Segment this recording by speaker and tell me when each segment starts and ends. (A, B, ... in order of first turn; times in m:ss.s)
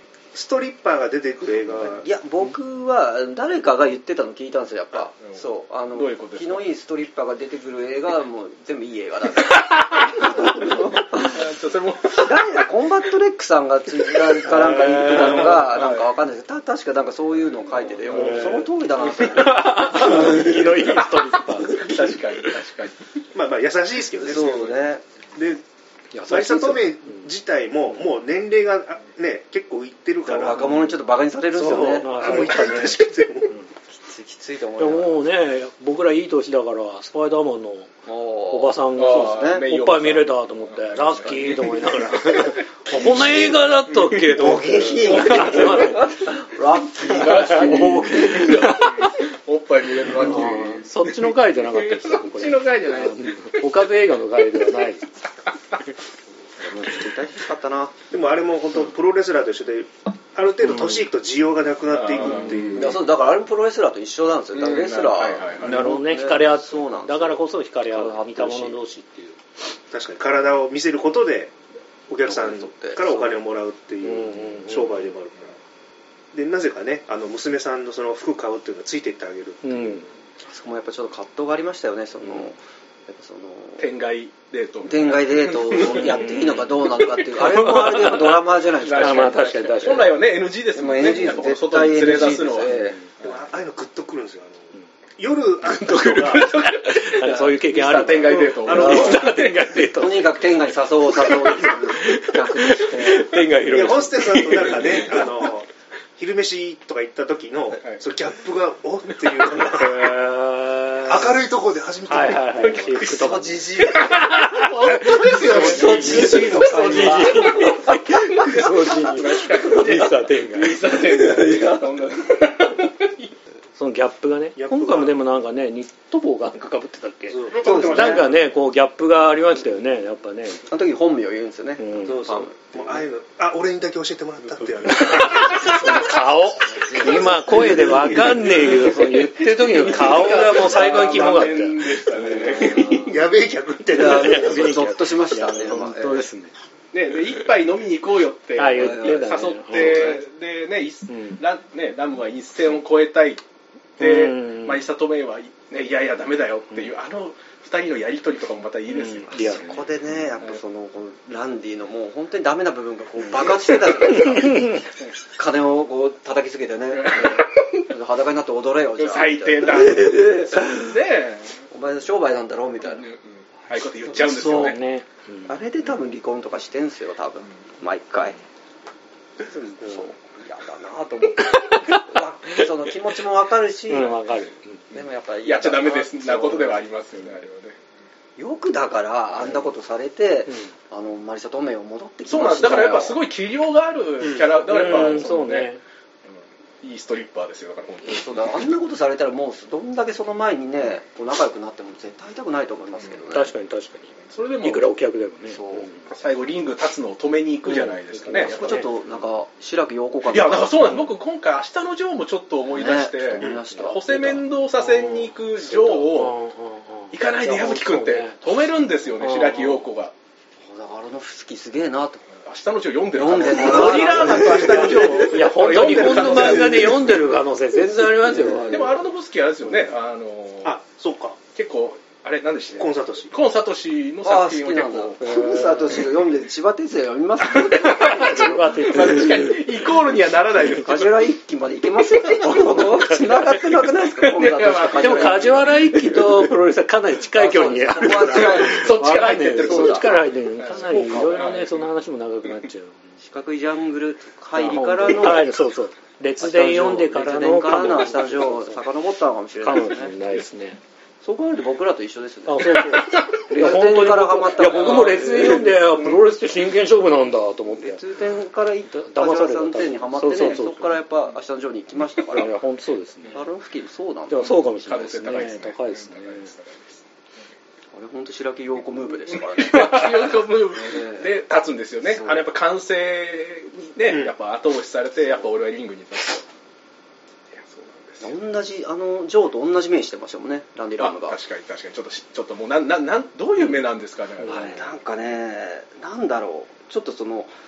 0:00.3-0:02.0 A
0:01.8-0:11.5 B
0:05.9-0:06.7 C
0:09.8-0:10.5 C
0:11.2-0:12.5 C
0:12.1-0:20.9 B
0:14.1-0:16.1 C
0:14.5-0:15.5 D
0:18.0-0:23.0 C
0:18.1-0:18.7 D
0:19.3-0:22.6 D
0:21.6-0:22.1 B
0:23.3-0:24.7 A
0:24.2-0:25.0 B
0:25.4-0:25.6 A
0:26.1-0:27.2 D
0:26.3-0:30.8 A
0:30.3-0:32.6 B
0:31.6-0:33.6 A
0:31.6-0:33.0 D
0:33.9-0:35.2 B
0:34.8-0:38.0 D
0:38.1-0:39.7 B
0:38.5-0:46.3 D
0:39.0-0:42.5 C
0:42.9-0:43.6 B
0:43.9-0:44.3 C
0:44.3-0:49.1 B
0:45.1-0:46.0 C
0:47.0-0:53.3 C
0:47.5-0:48.9 D
0:50.1-0:55.1 D
0:50.1-0:50.7 B
0:56.6-0:58.0 B
0:58.1-1:03.0 A
1:00.6-1:01.0 D
1:01.9-1:03.0 C
1:02.7-1:08.8 B
1:04.5-1:05.9 C
1:05.6-1:09.4 D
1:09.9-1:11.5 A
1:12.1-1:15.6 A
1:12.3-1:13.3 B
1:14.0-1:15.0 D
1:16.3-1:20.0 A
1:19.6-1:20.1 D
1:20.4-1:23.9 B
1:23.8-1:27.3 C
1:24.8-1:29.8 B
1:27.2-1:30.2 D
1:28.7-1:33.3 C
1:30.7-1:33.0 B
1:32.6-1:33.0 D
1:33.2-1:36.5 A
1:35.8-1:39.5 C
1:36.3-1:40.4 D
1:38.3-1:39.5 A
1:38.7-1:43.5 B
1:41.2-1:45.4 C
1:42.0-1:44.7 D
1:43.6-1:50.2 A
1:49.7-1:51.4 D
1:51.0-1:53.1 A
1:52.1-2:00.8 D
1:52.6-1:54.4 B
1:53.9-1:57.7 C
1:55.3-1:59.8 B
1:58.3-2:03.3 C
2:00.9-2:02.0 B
2:03.8-2:10.7 D
2:04.6-2:05.2 A
2:07.3-2:08.4 A
2:07.5-2:08.3 B
2:10.7-2:13.0 B
2:11.8-2:12.3 D
2:12.0-2:16.1 A
2:15.0-2:22.4 D
2:16.7-2:17.9 B
2:17.5-2:18.7 A
2:18.5-2:23.2 C
2:19.0-2:21.1 B
2:22.1-2:23.2 B
2:22.8-2:24.7 A
2:23.9-2:26.3 B
2:24.0-2:26.5 D
2:26.9-2:33.4 C
2:28.6-2:30.2 D
2:28.7-2:30.2 B
2:31.1-2:31.4 D
2:34.0-2:39.8 C
2:34.0-2:34.9 D
2:38.9-2:39.9 D
2:39.3-2:50.9 B
2:43.6-2:43.9 C
2:44.4-2:44.8 D
2:46.9-2:47.9 C
2:49.0-2:51.6 C
2:51.7-2:53.1 B
2:52.9-2:54.8 C
2:54.0-2:54.8 B
2:54.5-2:55.6 D
2:55.5-2:58.4 B
2:59.4-3:04.2 B
3:03.9-3:04.8 D
3:04.9-3:06.8 B
3:05.4-3:07.8 C
3:08.4-3:13.2 B
3:12.3-3:15.7 C
3:14.7-3:15.8 D
3:16.8-3:18.6 C
3:18.0-3:23.5 B
3:23.3-3:26.0 D
3:24.3-3:24.9 C
3:25.5-3:25.9 B
3:26.1-3:28.8 C
3:27.7-3:28.9 D
3:28.3-3:30.9 B
3:30.3-3:36.4 C
3:32.7-3:34.5 B
3:34.8-3:38.4 D
3:37.1-3:40.1 C
3:39.2-3:39.8 D
3:40.7-3:42.3 B
3:42.4-3:47.2 C
3:43.1-3:45.4 B
3:43.8-3:49.0 D
3:45.9-3:46.9 B
3:48.2-3:49.0 B
3:48.6-3:50.8 C
3:50.6-3:51.4 A
3:51.6-3:56.0 C
3:52.7-3:53.4 A
3:54.2-3:59.4 B
3:55.2-3:56.0 D
3:57.4-4:01.3 C
3:58.0-3:59.7 D
4:00.6-4:06.3 B
4:02.3-4:02.8 C
4:02.4-4:03.6 D
4:04.0-4:06.1 C
4:05.0-4:13.2 D
4:07.3-4:09.0 B
4:08.2-4:11.8 C
4:09.6-4:10.1 B
4:10.8-4:11.4 B
4:13.2-4:15.5 B
4:14.6-4:18.8 D
4:16.4-4:20.1 B
4:19.6-4:20.8 D
4:21.2-4:25.7 B
4:22.5-4:28.0 D
4:24.8-4:25.6 C
4:27.7-4:32.6 B
4:28.9-4:31.0 D
4:32.3-4:33.4 D
4:33.3-4:34.5 B
4:34.3-4:36.5 D
4:34.8-4:37.0 C
4:37.9-4:41.3 B
4:39.5-4:46.4 C
4:42.1-4:42.5 B
4:47.5-4:48.3 C
4:48.2-4:51.4 B
4:51.0-4:54.8 C
4:54.4-4:57.5 B
4:54.5-4:54.7 D